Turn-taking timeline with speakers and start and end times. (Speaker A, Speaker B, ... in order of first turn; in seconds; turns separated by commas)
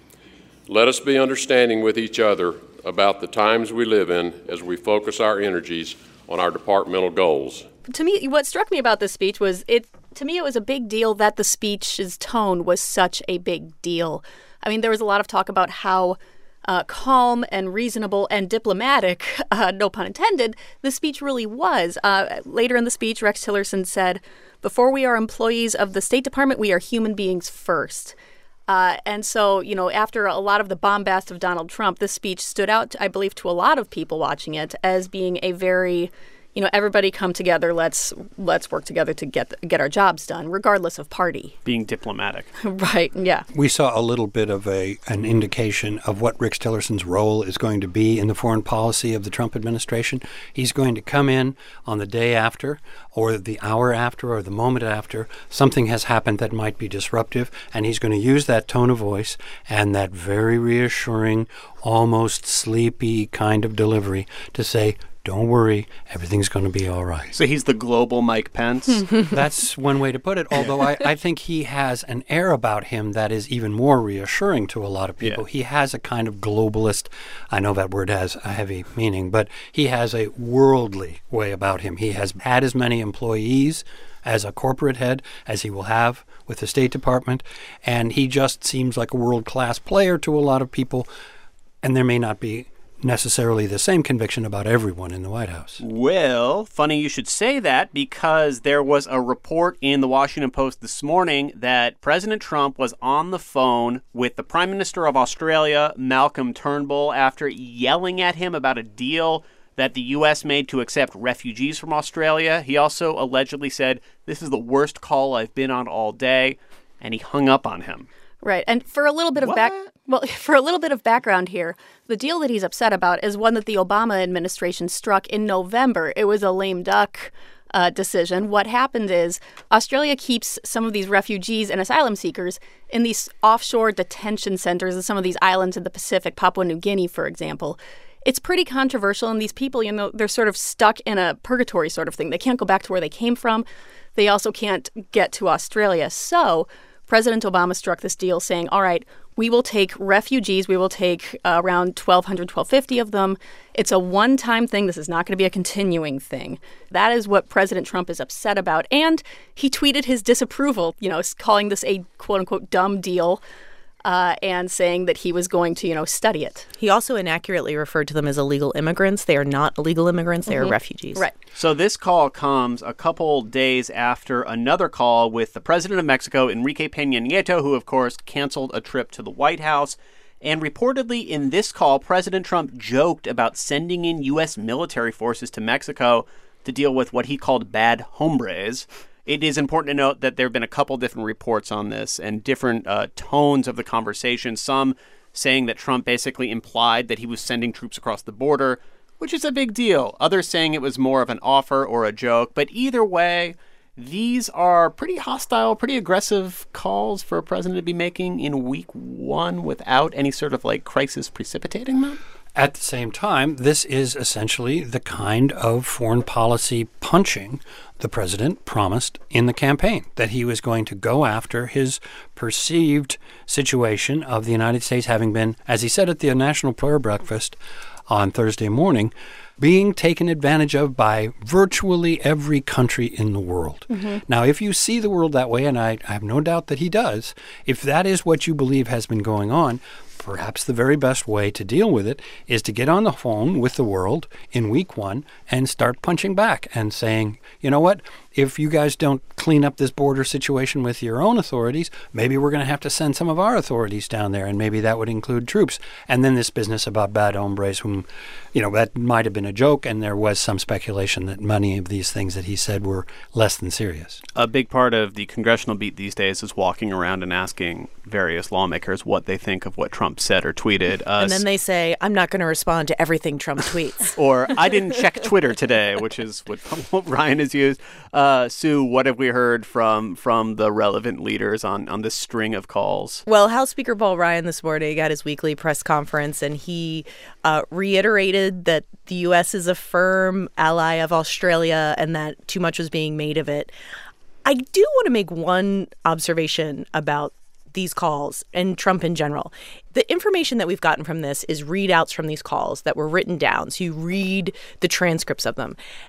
Speaker A: 0.7-7.7, Speaker B: 7.9-28.1, Speaker B: 28.7-41.5, Speaker C: 41.6-42.5, Speaker B: 42.6-43.5, Speaker D: 43.5-67.3, Speaker C: 67.3-69.1, Speaker D: 69.3-91.1, Speaker D: 91.8-95.8, Speaker C: 95.8-118.1, Speaker B: 118.4-163.4, Speaker C: 119.4-119.9, Speaker B: 164.0-166.7, Speaker E: 166.8-171.2, Speaker B: 170.5-171.3, Speaker C: 171.6-212.2, Speaker D: 212.6-264.2, Speaker B: 233.9-234.2, Speaker C: 264.3-271.4, Speaker E: 271.2-274.2, Speaker C: 274.2-283.2, Speaker E: 283.3-293.7, Speaker E: 294.4-305.8